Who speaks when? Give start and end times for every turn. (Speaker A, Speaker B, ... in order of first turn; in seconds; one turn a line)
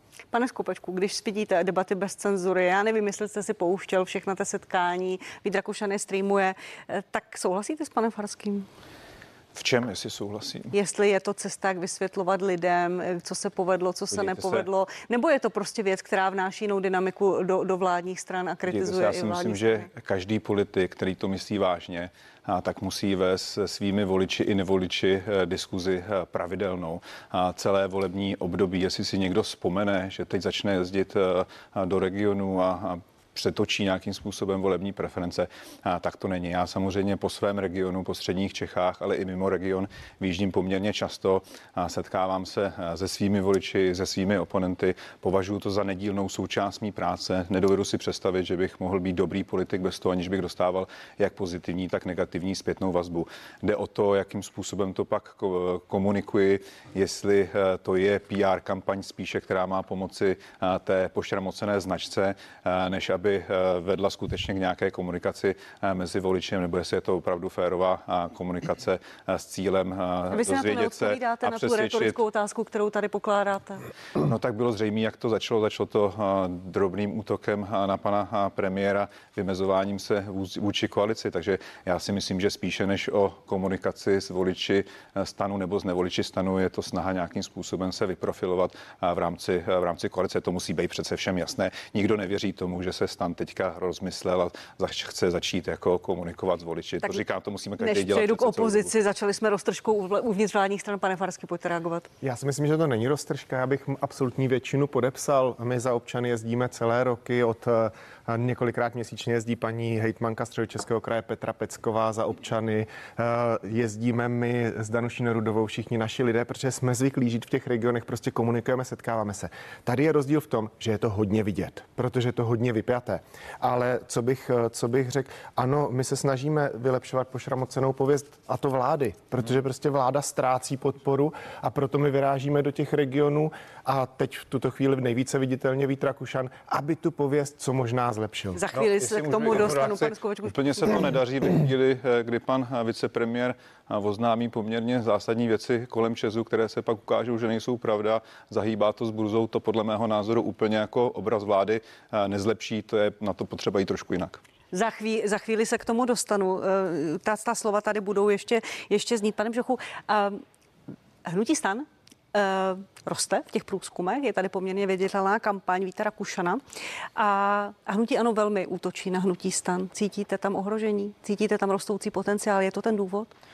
Speaker A: 0.3-8.7
Speaker B: 9.6-10.7
Speaker A: 10.7-19.9
Speaker B: 14.1-14.7
Speaker B: 18.7-72.2
Speaker A: 70.3-73.8
Speaker B: 74.2-98.9
Speaker A: 97.8-102.1
Speaker C: 102.2-138.7
Speaker A: 138.6-141.1
Speaker B: 138.8-154.4
Speaker A: 154.7-160.4
Speaker A: 161.2-166.6
Speaker A: 167.2-173.3